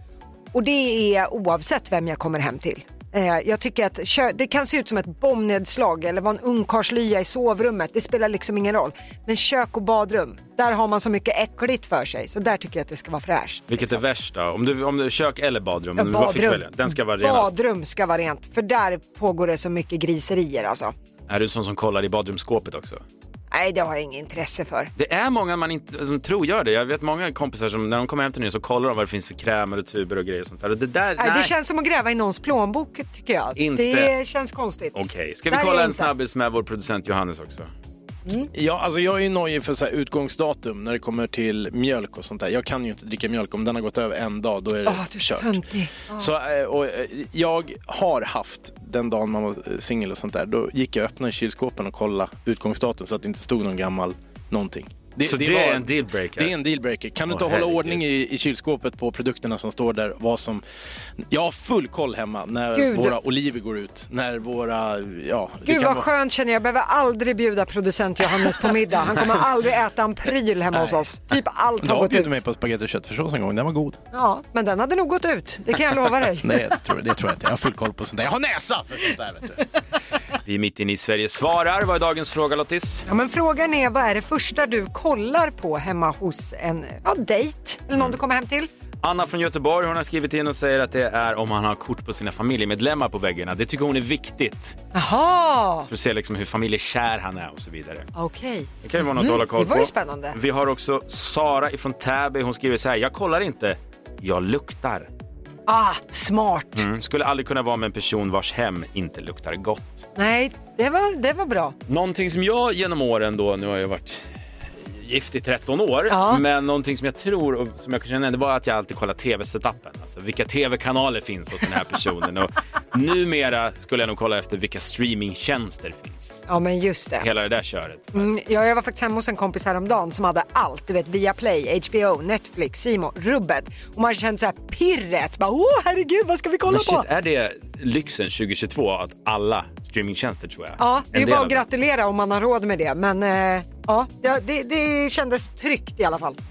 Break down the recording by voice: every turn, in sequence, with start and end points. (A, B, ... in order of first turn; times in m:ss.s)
0:00.5-0:14.0 A
0:13.7-0:17.5 B
0:16.0-0:20.9 A
0:21.3-0:23.0 B
0:23.5-0:24.9 A
0:25.0-0:31.5 B
0:31.2-0:36.1 A
0:33.6-0:34.1 B
0:34.9-0:37.7 B
0:38.5-1:00.6 C
0:44.8-0:46.3 A
0:55.2-0:56.5 B
0:57.3-0:58.0 B
1:01.3-1:06.1 C
1:02.7-1:03.2 A
1:05.6-1:12.3 A
1:10.7-1:11.0 C
1:11.8-1:14.0 C
1:14.1-1:16.6 A
1:16.4-1:19.6 C
1:20.4-1:23.0 B
1:23.1-1:28.7 A
1:29.0-1:34.8 B
1:34.9-1:35.9 A
1:35.9-1:38.1 B
1:38.1-1:40.4 A
1:38.8-1:45.1 B
1:45.7-1:46.8 A
1:46.7-1:50.1 B
1:50.2-1:51.8 A
1:51.9-1:54.2 B
1:54.8-2:06.4 B
1:56.1-1:56.4 A
2:06.5-2:07.3 A
2:07.2-2:08.3 B
2:08.1-2:17.0 A
2:16.7-2:21.6 B
2:20.8-2:26.4 A